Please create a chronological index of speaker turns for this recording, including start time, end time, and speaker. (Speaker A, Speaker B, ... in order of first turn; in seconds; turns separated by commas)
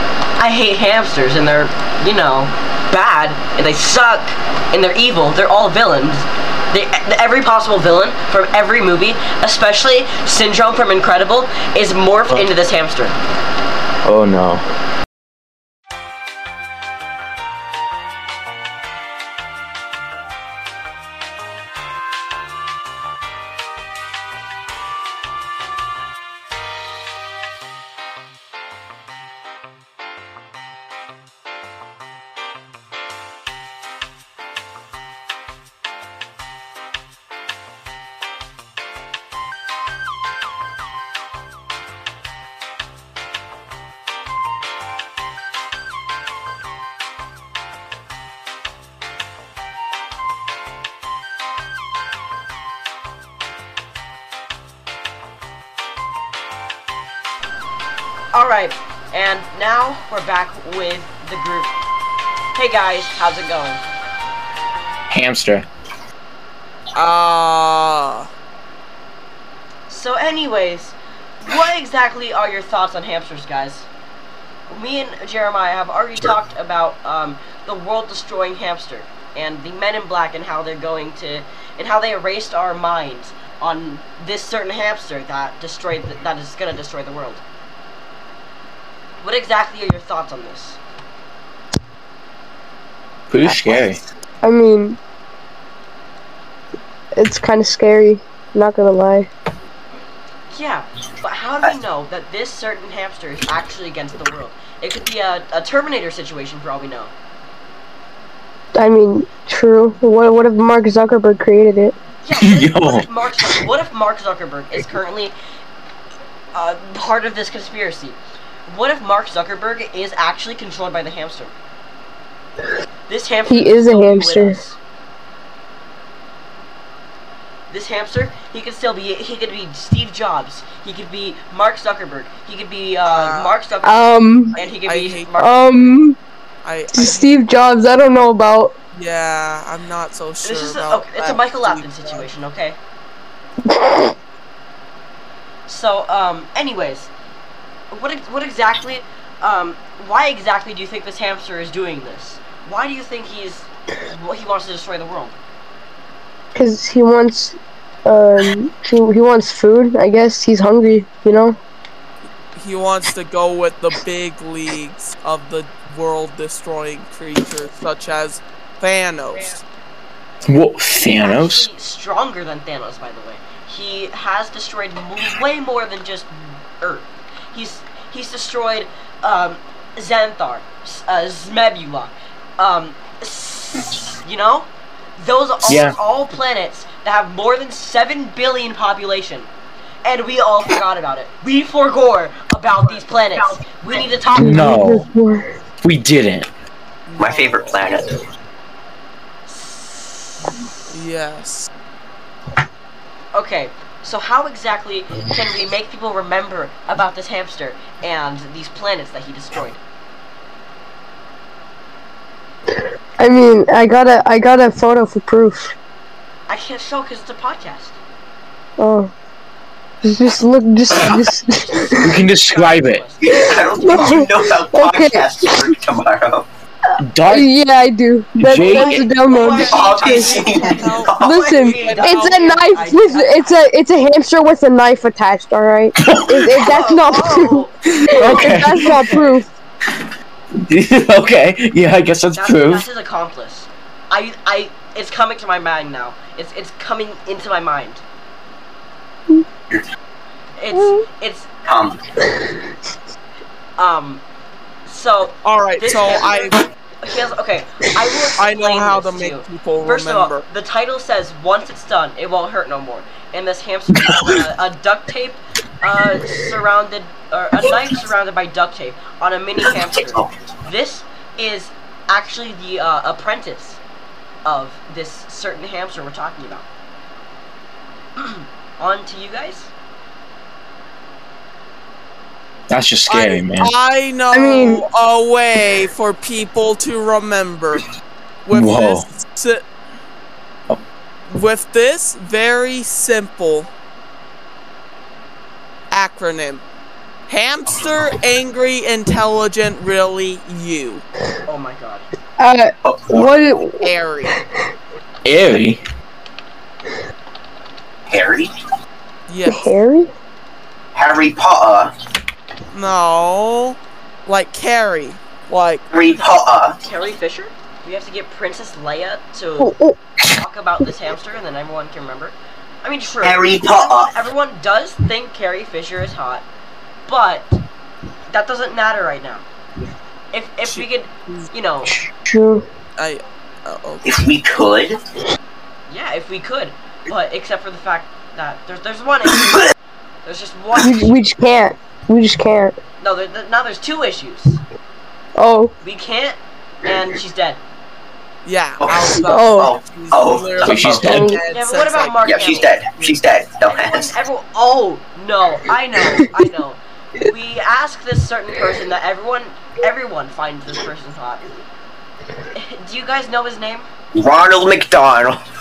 Speaker A: 0.4-13.2, Speaker B: 14.1-14.6, Speaker A: 58.3-61.7, Speaker A: 62.5-63.8, Speaker B: 65.1-65.7, Speaker C: 67.0-68.3, Speaker A: 69.9-73.9, Speaker A: 74.7-87.4, Speaker A: 89.2-90.8, Speaker B: 93.3-94.0, Speaker D: 94.4-95.0, Speaker D: 97.2-99.3, Speaker A: 100.5-107.1, Speaker D: 108.8-112.0, Speaker A: 112.2-115.3, Speaker B: 112.4-113.1, Speaker A: 116.5-121.5, Speaker A: 123.1-124.8, Speaker D: 123.5-124.6, Speaker A: 127.7-135.9, Speaker C: 133.1-133.6, Speaker D: 133.8-134.6, Speaker C: 134.6-135.4, Speaker D: 135.4-136.2, Speaker C: 136.6-137.3, Speaker D: 136.9-138.8, Speaker C: 138.9-142.3, Speaker A: 140.4-142.8, Speaker D: 143.7-144.2, Speaker A: 145.7-147.1, Speaker A: 147.9-155.3, Speaker D: 156.6-161.6, Speaker C: 162.6-169.6, Speaker B: 170.4-171.7, Speaker A: 171.2-189.5, Speaker B: 185.7-186.0, Speaker A: 190.1-194.8, Speaker B: 194.3-195.1, Speaker D: 194.3-195.5, Speaker B: 195.8-196.5, Speaker C: 197.1-198.0, Speaker E: 197.2-198.2, Speaker A: 199.5-200.9, Speaker C: 200.9-201.7, Speaker A: 203.3-209.8, Speaker D: 212.7-215.7, Speaker A: 216.5-218.0, Speaker D: 218.8-219.1, Speaker D: 220.0-222.2, Speaker A: 221.6-224.3, Speaker B: 222.0-223.0, Speaker E: 223.2-226.4, Speaker D: 223.3-225.8, Speaker B: 227.0-227.5, Speaker D: 227.3-230.5, Speaker B: 228.4-229.1, Speaker A: 228.6-233.6, Speaker E: 229.5-231.8, Speaker C: 229.8-232.6, Speaker D: 231.2-239.5, Speaker B: 236.0-236.6, Speaker A: 236.5-239.3, Speaker B: 238.1-239.2, Speaker B: 240.7-242.9, Speaker A: 242.3-248.0, Speaker A: 250.6-251.5, Speaker D: 250.8-251.0, Speaker E: 251.7-252.0, Speaker A: 253.8-254.2, Speaker A: 254.9-273.8, Speaker C: 255.4-256.6, Speaker C: 258.4-260.5, Speaker E: 269.6-270.3, Speaker A: 274.4-276.7, Speaker A: 278.2-279.7, Speaker B: 282.7-283.7, Speaker C: 283.1-287.9, Speaker D: 284.3-284.8, Speaker C: 288.5-289.6, Speaker B: 288.5-289.1, Speaker C: 291.3-293.7, Speaker C: 295.9-296.6, Speaker C: 297.3-301.0, Speaker A: 301.5-302.1, Speaker D: 302.4-304.4, Speaker E: 302.9-303.3, Speaker C: 303.8-304.4, Speaker B: 305.2-305.8, Speaker E: 308.1-308.5, Speaker C: 309.3-309.8, Speaker D: 309.5-310.1, Speaker E: 310.9-311.9, Speaker C: 312.7-315.9, Speaker E: 315.9-316.8, Speaker A: 316.8-319.8, Speaker D: 319.6-320.0, Speaker A: 320.3-326.5, Speaker E: 323.2-324.2, Speaker A: 327.1-327.6, Speaker A: 328.3-329.4, Speaker A: 330.3-331.9, Speaker C: 330.6-331.5, Speaker D: 332.2-332.7, Speaker C: 333.0-334.1, Speaker E: 334.0-335.0, Speaker A: 335.9-339.7, Speaker A: 340.2-341.2, Speaker D: 340.8-342.8, Speaker A: 343.0-344.6, Speaker D: 345.4-345.7, Speaker A: 345.8-347.6, Speaker C: 348.4-353.2, Speaker E: 348.8-351.3, Speaker D: 349.2-349.7, Speaker B: 350.6-351.3, Speaker D: 351.0-351.4, Speaker A: 351.4-352.8, Speaker E: 352.2-354.2, Speaker A: 353.6-361.5, Speaker A: 362.5-363.9, Speaker E: 364.1-365.4